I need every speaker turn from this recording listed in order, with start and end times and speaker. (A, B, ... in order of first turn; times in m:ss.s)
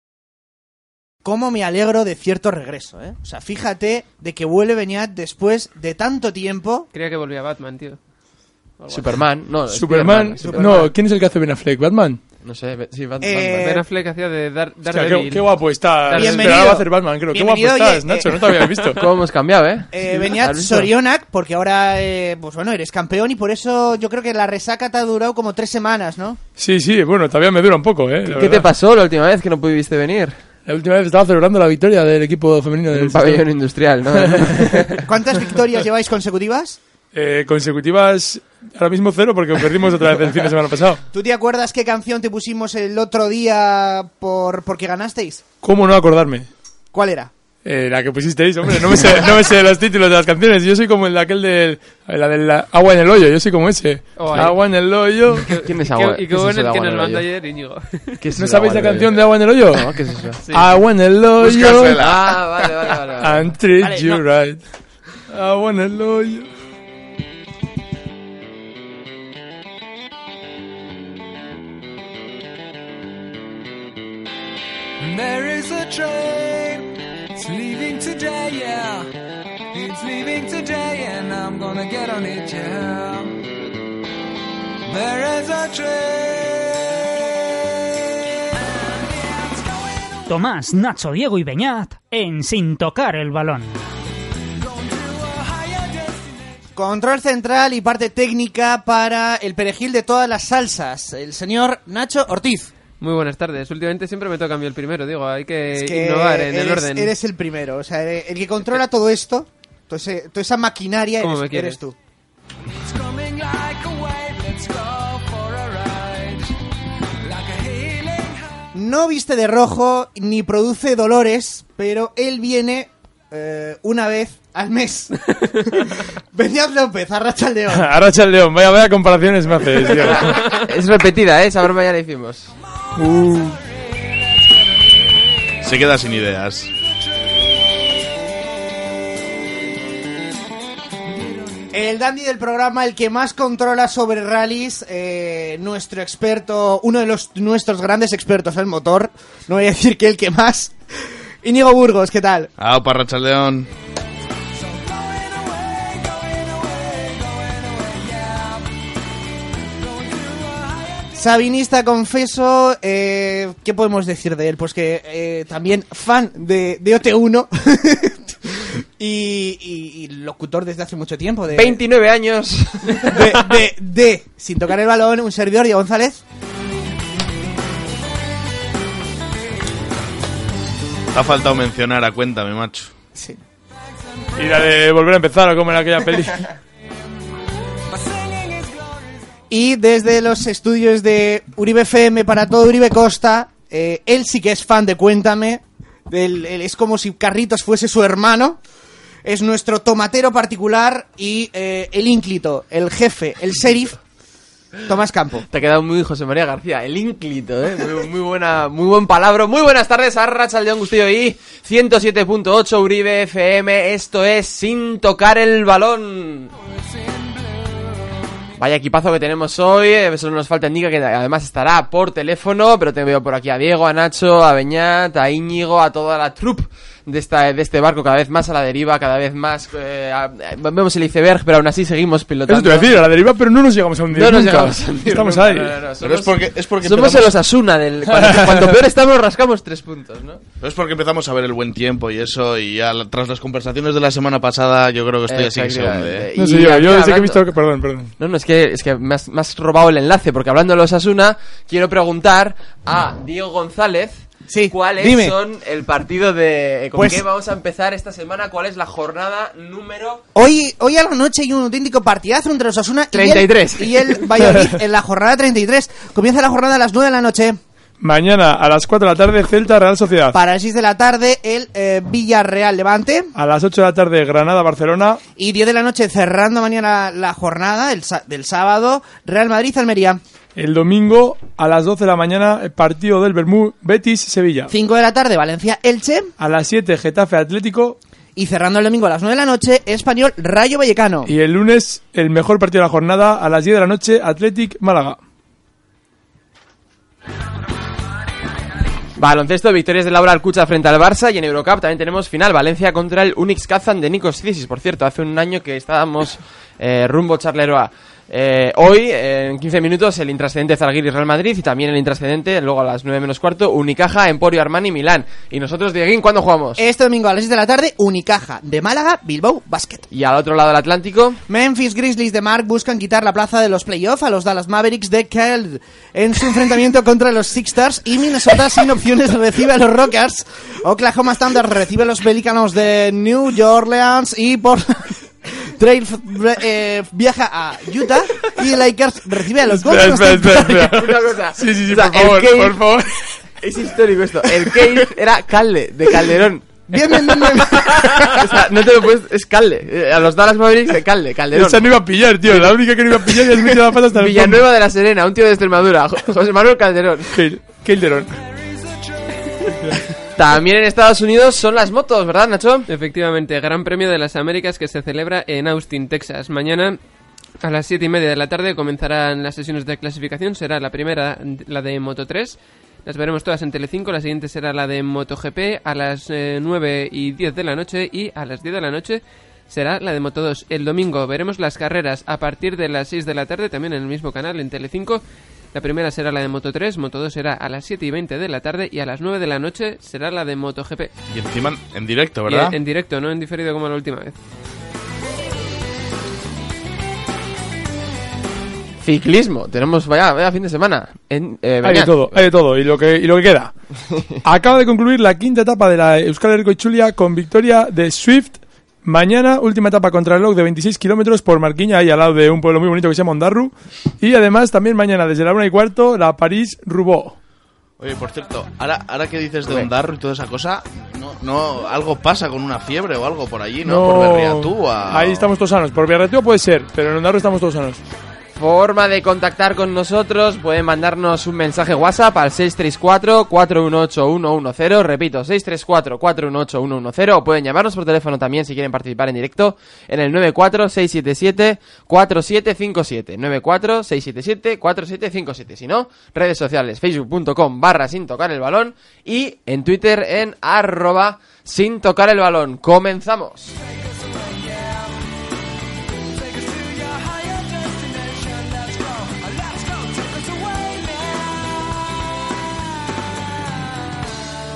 0:01.2-0:06.9 A
0:06.9-0:08.0 B
0:08.9-0:10.8 C
0:09.7-0:12.2 D
0:10.4-0:11.0 A
0:12.4-0:13.8 C
0:13.2-0:13.8 A
0:13.6-0:16.6 B
0:14.9-0:19.0 D
0:16.1-0:18.8 A
0:19.0-0:20.9 C
0:19.9-0:26.4 A
0:26.6-0:28.7 D
0:28.2-0:30.4 C
0:30.7-0:33.5 D
0:32.9-0:35.0 C
0:34.2-0:35.0 D
0:35.1-0:36.8 A
0:37.1-0:41.0 D
0:41.1-0:45.4 A
0:45.6-0:46.5 D
0:46.9-0:47.3 A
0:47.6-0:55.6 D
0:54.2-0:54.6 B
0:55.4-0:58.2 B
0:55.5-0:57.3 C
0:58.2-1:00.4 C
0:58.4-1:02.0 D
1:01.4-1:02.4 E
1:01.9-1:03.6 C
1:03.2-1:04.6 D
1:03.8-1:04.2 A
1:05.3-1:06.5 D
1:15.0-1:19.1 F
1:19.7-1:23.4 F
1:24.8-1:27.3 F
1:27.9-1:30.2 F
1:30.3-1:33.8 G
1:34.6-1:36.4 F
1:36.8-1:42.7 A
1:43.0-1:47.1 B
1:45.7-1:52.0 A
1:51.2-1:51.8 B
1:52.7-1:56.6 F
1:57.2-1:58.5 F
1:58.7-2:07.9 A
2:07.7-2:10.6 D
2:10.3-2:12.5 C
2:13.0-2:13.6 D
2:15.6-2:16.7 E
2:21.7-2:30.8 A
2:31.4-2:32.5 A
2:32.6-2:33.7 E
2:34.6-2:38.7 F
2:39.8-2:41.0 F
2:41.2-2:51.8 A
2:51.5-2:53.5 C
2:53.0-2:56.2 A
3:01.1-3:02.9 E
3:04.4-3:06.5 D
3:07.9-3:09.2 F
3:09.5-3:18.6 A
3:19.2-3:24.0 A
3:24.8-3:25.4 A
3:25.5-3:36.5 C
3:37.1-3:37.3 F
3:38.6-3:53.0 C
3:52.5-3:55.8 D
3:54.1-4:00.4 C
3:56.0-3:57.4 E
3:58.1-3:58.8 D
4:00.6-4:06.3 E
4:05.3-4:07.4 C
4:06.3-4:08.1 D
4:08.2-4:20.2 C
4:14.5-4:15.4 A
4:17.0-4:17.2 A
4:20.4-4:27.6 A
4:23.1-4:24.3 C
4:28.0-4:30.4 D
4:30.3-4:33.3 A
4:33.4-4:35.2 D
4:35.4-4:40.2 A
4:40.6-4:44.7 D
4:44.7-4:46.3 A
4:46.4-4:48.0 D
4:48.4-4:51.3 A
4:51.3-4:55.2 D
4:59.2-5:16.8 C
5:16.8-5:20.1 A
5:20.1-5:21.4 C
5:21.5-5:40.9 A
5:39.6-5:43.4 D
5:40.8-5:42.8 C
5:43.6-5:46.8 C
5:46.9-5:48.5 A
5:47.4-5:51.9 C
5:51.5-5:54.6 D
5:52.5-5:52.8 C
5:54.1-5:57.3 C
5:57.3-5:58.3 D
5:58.4-5:59.6 F
6:00.4-6:02.9 C
6:02.9-6:07.0 B
6:07.6-6:25.2 B
6:25.7-6:31.1 B
6:31.3-6:32.8 E
6:32.5-6:34.4 B
6:39.0-6:42.4 C
6:41.8-6:43.8 D
6:44.4-6:57.4 D
6:58.0-7:05.5 E
7:03.8-7:08.0 D
7:08.6-7:33.8 C
7:33.9-7:35.2 F
7:36.4-7:41.9 F